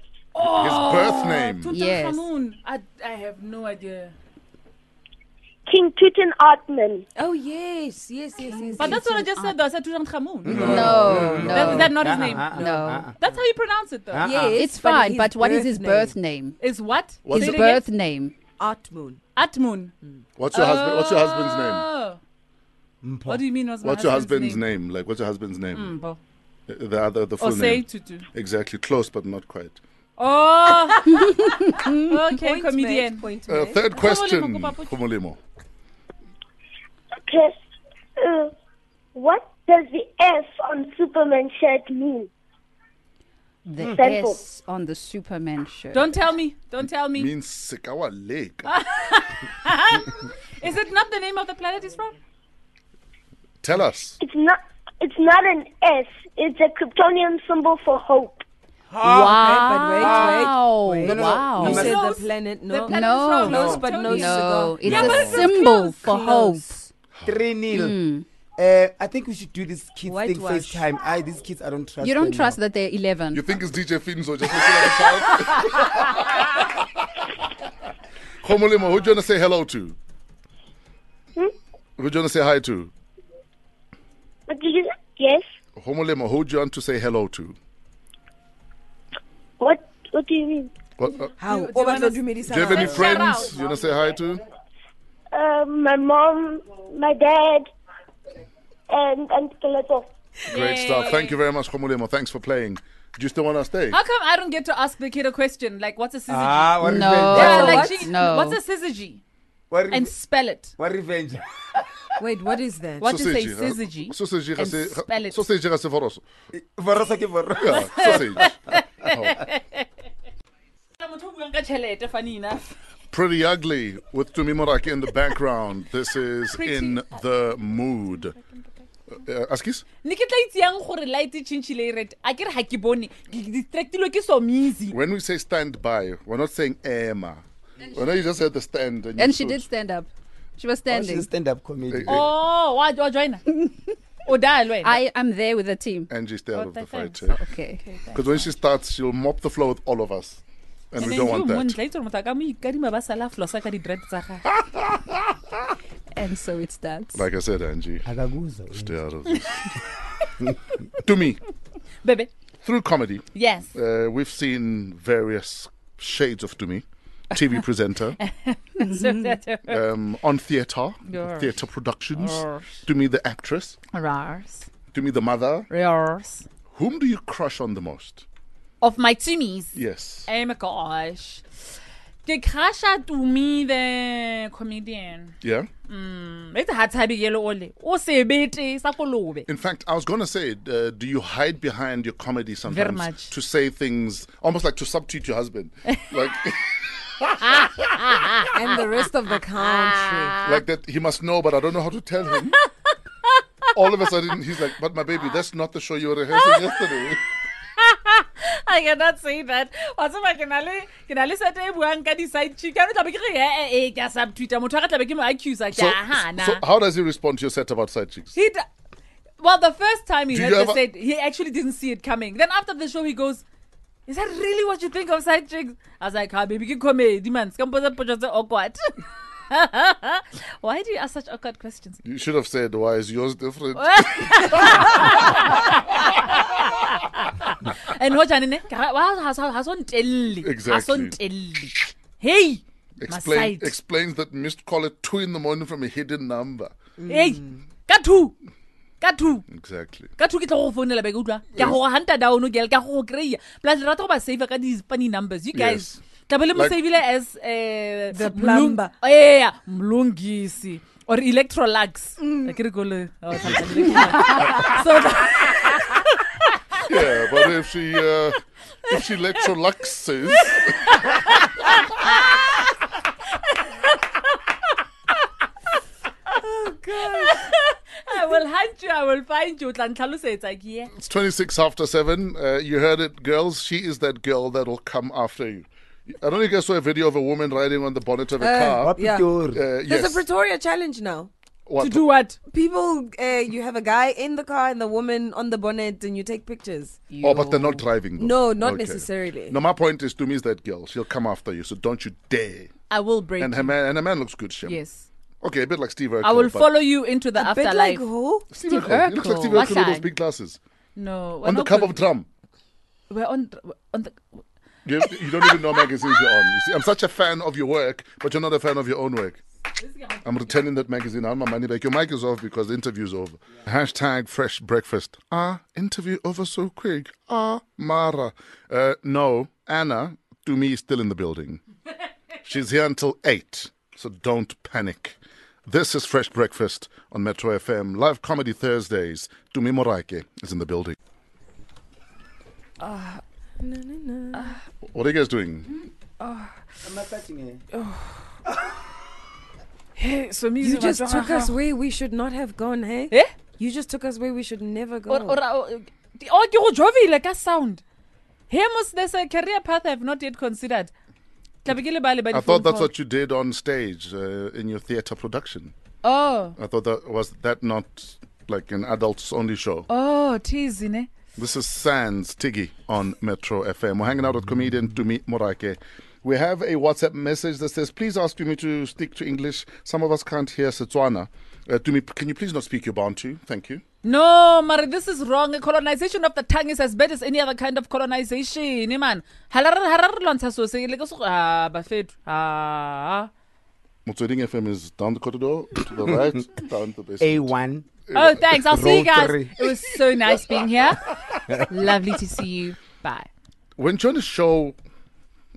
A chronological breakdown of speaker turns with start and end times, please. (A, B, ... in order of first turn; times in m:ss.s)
0:00.3-0:04.1 A
0:00.5-0:01.7 B
0:01.7-0:02.2 C
0:05.7-0:07.0 D
0:07.2-0:09.5 E
0:08.8-0:12.6 A
0:10.4-0:13.1 F
0:10.5-0:11.4 B
0:10.6-0:13.1 C
0:11.1-0:12.1 E
0:13.2-0:14.3 A
0:14.1-0:14.7 F
0:14.2-0:16.2 E
0:14.4-0:16.6 C
0:16.6-0:17.8 A
0:17.2-0:17.6 B
0:17.3-0:18.3 C
0:18.6-0:19.2 E
0:19.3-0:19.9 A
0:20.4-0:21.9 B
0:20.5-0:22.2 A
0:23.0-0:23.4 F
0:23.3-0:24.6 A
0:23.8-0:26.0 B
0:25.7-0:26.2 A
0:26.7-0:29.8 B
0:27.4-0:28.2 A
0:30.2-0:33.3 A
0:31.2-0:32.0 C
0:32.3-0:33.9 E
0:33.5-0:35.4 B
0:33.9-0:34.9 A
0:37.2-0:37.6 D
0:38.2-0:38.5 D
0:39.1-0:42.3 D
0:43.6-0:46.2 C
0:43.8-0:44.4 D
0:45.9-0:47.3 A
0:47.1-0:48.7 B
0:48.7-0:52.2 A
0:53.6-0:54.2 B
0:54.2-0:58.4 D
0:58.9-0:59.4 F
0:59.0-1:05.5 E
0:59.0-1:00.5 A
1:00.0-1:02.0 F
1:00.0-1:01.8 C
1:01.1-1:06.4 A
1:02.9-1:06.9 C
1:04.8-1:05.5 B
1:06.0-1:06.6 E
1:07.2-1:08.0 F
1:07.7-1:08.2 C
1:08.6-1:12.6 F
1:10.0-1:10.8 E
1:12.0-1:13.4 C
1:13.3-1:16.7 B
1:18.4-1:20.0 B
1:22.0-1:22.9 B
1:24.5-1:25.5 D
1:25.8-1:27.6 B
1:29.6-1:30.7 D
1:31.0-1:31.3 B
1:31.4-1:33.7 E
1:31.4-1:33.5 A
1:32.5-1:34.4 B
1:35.3-1:37.7 D
1:38.9-1:40.1 D
1:40.5-1:41.3 A
1:40.5-1:44.0 B
1:43.9-1:49.2 A
1:46.3-1:47.9 F
1:46.8-1:48.6 C
1:47.3-1:48.1 E
1:49.7-1:50.1 F
1:49.9-1:50.7 A
1:50.8-1:51.4 F
1:52.2-1:53.1 E
1:53.0-1:55.4 A
1:53.0-1:56.2 B
1:56.5-1:58.4 F
1:57.6-1:59.5 B
1:57.7-1:59.8 A
2:01.0-2:02.7 A
2:03.1-2:08.3 B
2:06.5-2:07.2 A
2:08.3-2:08.6 A
2:09.1-2:09.8 B
2:10.0-2:15.0 A
2:14.9-2:19.7 B
2:19.2-2:21.3 C
2:20.9-2:22.3 F
2:21.9-2:22.3 B
2:22.1-2:23.4 A
2:24.2-2:25.0 A
2:24.8-2:26.1 C
2:26.1-2:27.4 B
2:26.5-2:27.2 A
2:27.3-2:27.8 C
2:27.8-2:28.5 A
2:28.1-2:31.8 B
2:31.0-2:34.5 A
2:36.1-2:37.2 C
2:37.1-2:38.1 B
2:38.0-2:39.0 F
2:38.7-2:39.7 B
2:41.0-2:41.4 B
2:42.0-2:42.3 A
2:42.6-2:48.2 B
2:43.3-2:43.7 A
2:48.2-2:49.8 A
2:49.7-2:53.8 B
2:51.1-2:51.5 A
2:52.1-2:52.8 A
2:53.9-2:54.7 A
2:54.9-2:55.7 B
2:55.7-2:56.4 A
2:56.7-2:58.2 B
2:58.8-3:01.4 A
2:59.7-3:00.3 B
3:02.2-3:05.3 A
3:05.4-3:05.7 B
3:05.9-3:09.5 A
3:09.5-3:17.8 B
3:12.7-3:13.3 A
3:17.6-3:18.5 A
3:18.5-3:20.4 E
3:19.7-3:20.6 A
3:20.4-3:22.6 B
3:23.7-3:27.2 B
3:26.4-3:26.7 A
3:27.8-3:36.6 A
3:35.7-3:38.4 B
3:38.3-3:38.6 A
3:39.4-3:43.4 A
3:40.3-3:40.8 B
3:44.1-3:48.9 A
3:49.5-3:52.0 A
3:52.0-3:56.0 B
3:53.8-4:03.8 A
4:00.4-4:01.2 B
4:03.0-4:06.7 B
4:07.0-4:07.6 E
4:07.1-4:08.4 A
4:09.0-4:09.5 A
4:09.5-4:10.1 B
4:10.2-4:26.8 A
4:15.5-4:16.8 B
4:18.1-4:18.9 E
4:22.2-4:22.5 E
4:26.8-4:31.4 B
4:30.5-4:31.5 A
4:33.6-4:34.4 A
4:36.4-4:37.4 E
4:36.9-4:40.9 A
4:40.9-4:48.9 B
4:48.4-4:51.3 E
4:48.7-4:49.6 F
4:49.5-4:50.2 B
4:51.7-4:52.0 B
4:51.8-4:52.4 A
4:52.5-4:57.1 E
4:57.1-4:57.8 A
4:57.2-5:02.7 B
4:58.2-4:59.6 E
5:02.9-5:03.8 A
5:03.4-5:04.8 B
5:04.6-5:05.1 A
5:05.4-5:06.7 B
5:06.2-5:08.0 A
5:07.4-5:08.4 E
5:08.5-5:10.6 B
5:08.6-5:10.1 A
5:11.0-5:12.0 A
5:11.4-5:12.2 B
5:13.1-5:14.4 A
5:14.8-5:19.4 B
5:15.4-5:16.2 A
5:19.8-5:20.6 A
5:20.2-5:31.6 B
5:32.4-5:41.0 B
5:42.8-5:44.6 E
5:44.9-5:45.7 B
5:46.2-5:46.5 A
5:46.8-5:47.6 F
5:50.0-5:51.5 A
5:50.6-5:55.4 E
5:55.1-5:57.8 A
5:58.5-6:00.9 A
6:01.6-6:02.9 A
6:02.3-6:05.7 B
6:06.0-6:06.6 A
6:06.6-6:09.9 B
6:09.9-6:11.1 A
6:11.4-6:23.8 B
6:24.0-6:33.3 A
6:34.0-6:37.5 B
6:37.2-6:37.8 F
6:38.1-6:39.0 B
6:38.1-6:43.3 A
6:38.7-6:39.7 F
6:43.8-6:44.8 B